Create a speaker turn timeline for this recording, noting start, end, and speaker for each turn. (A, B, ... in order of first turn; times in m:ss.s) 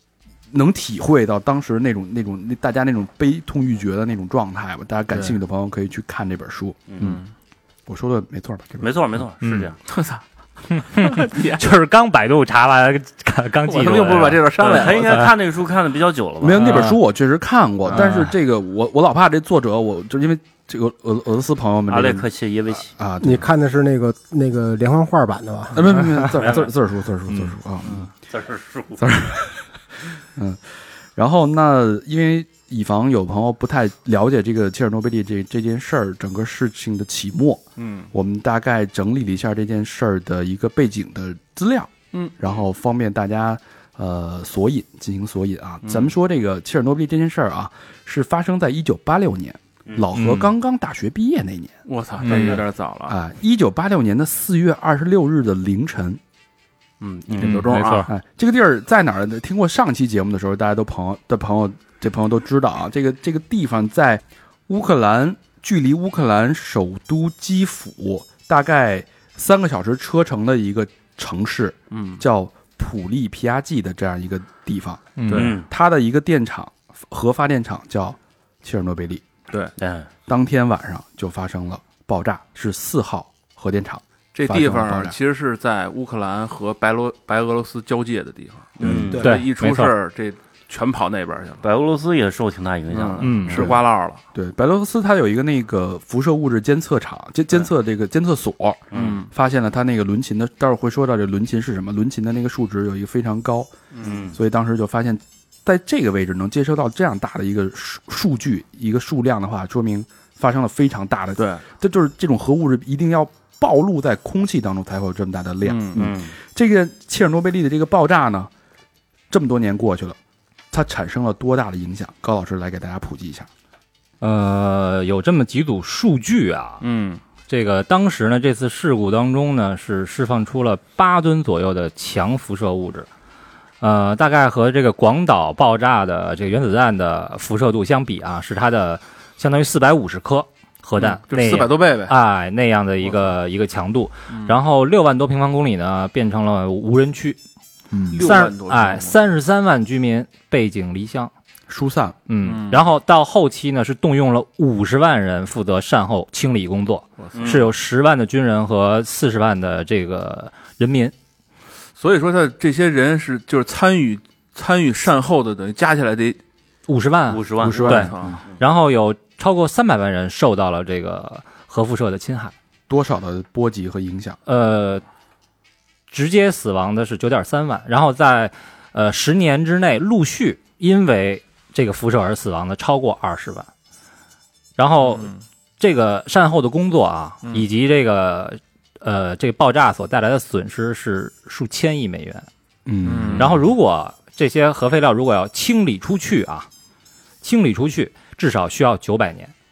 0:00.5-0:07.2 A
0:06.9-0:07.2 B
0:07.0-0:07.3 C
0:07.9-0:08.9 A
0:08.8-0:09.8 B
0:09.4-0:09.7 D
0:09.9-0:10.2 C
0:10.7-0:15.3 D
0:10.9-0:11.6 C
0:13.6-0:15.3 C
0:14.6-0:16.9 B
0:16.4-0:23.5 A
0:16.6-0:17.0 D
0:17.9-0:18.2 C
0:17.9-0:18.3 D
0:21.9-0:22.9 B
0:23.2-0:26.0 E
0:25.7-0:28.1 A
0:26.4-0:26.7 B
0:27.3-0:27.6 D
0:28.3-0:29.0 B
0:29.0-0:29.6 A
0:30.4-0:56.2 A
0:37.8-0:38.1 C
0:45.8-0:46.1 C
0:50.2-0:50.5 C
0:51.9-0:53.2 C
0:52.2-0:52.6 D
0:57.0-0:58.1 C
0:57.3-0:57.6 B
0:57.4-0:58.1 D
0:58.1-1:15.1 A
1:11.9-1:12.2 C
1:15.2-1:15.5 D
1:15.3-1:15.6 C
1:15.3-1:15.7 B
1:15.7-1:19.2 A
1:19.8-1:20.1 B
1:20.3-1:25.2 A
1:24.3-1:31.6 C
1:28.8-1:29.3 A
1:28.8-1:29.3 B
1:29.2-1:30.0 D
1:31.6-1:33.8 B
1:32.9-1:34.2 C
1:33.2-1:33.7 D
1:33.5-1:43.7 A
1:38.9-1:39.2 B
1:38.9-1:39.3 C
1:43.9-1:44.3 C
1:44.0-1:44.4 B
1:44.3-1:58.5 A
1:51.4-1:51.6 C
1:55.6-1:56.1 C
1:56.0-1:56.3 B
1:59.3-2:00.2 A
2:00.7-2:03.5 A
2:04.2-2:06.8 D
2:06.8-2:07.2 C
2:07.5-2:13.1 D
2:13.8-2:27.4 D
2:21.0-2:22.2 C
2:24.3-2:24.6 C
2:27.9-2:28.2 A
2:28.1-2:29.2 C
2:28.2-2:31.3 D
2:31.7-2:32.2 A
2:32.3-2:41.1 D
2:32.4-2:32.9 C
2:37.2-2:37.7 C
2:37.4-2:37.6 B
2:42.0-2:46.4 C
2:46.9-2:52.5 D
2:47.3-2:48.6 B
2:47.6-2:48.4 C
2:47.6-2:48.4 A
2:52.9-2:54.4 A
2:54.5-2:55.0 D
2:56.1-3:03.7 D
3:04.8-3:12.5 D
3:05.1-3:05.4 C
3:12.9-3:13.6 A
3:13.0-3:13.6 C
3:13.4-3:16.7 D
3:17.4-3:19.5 D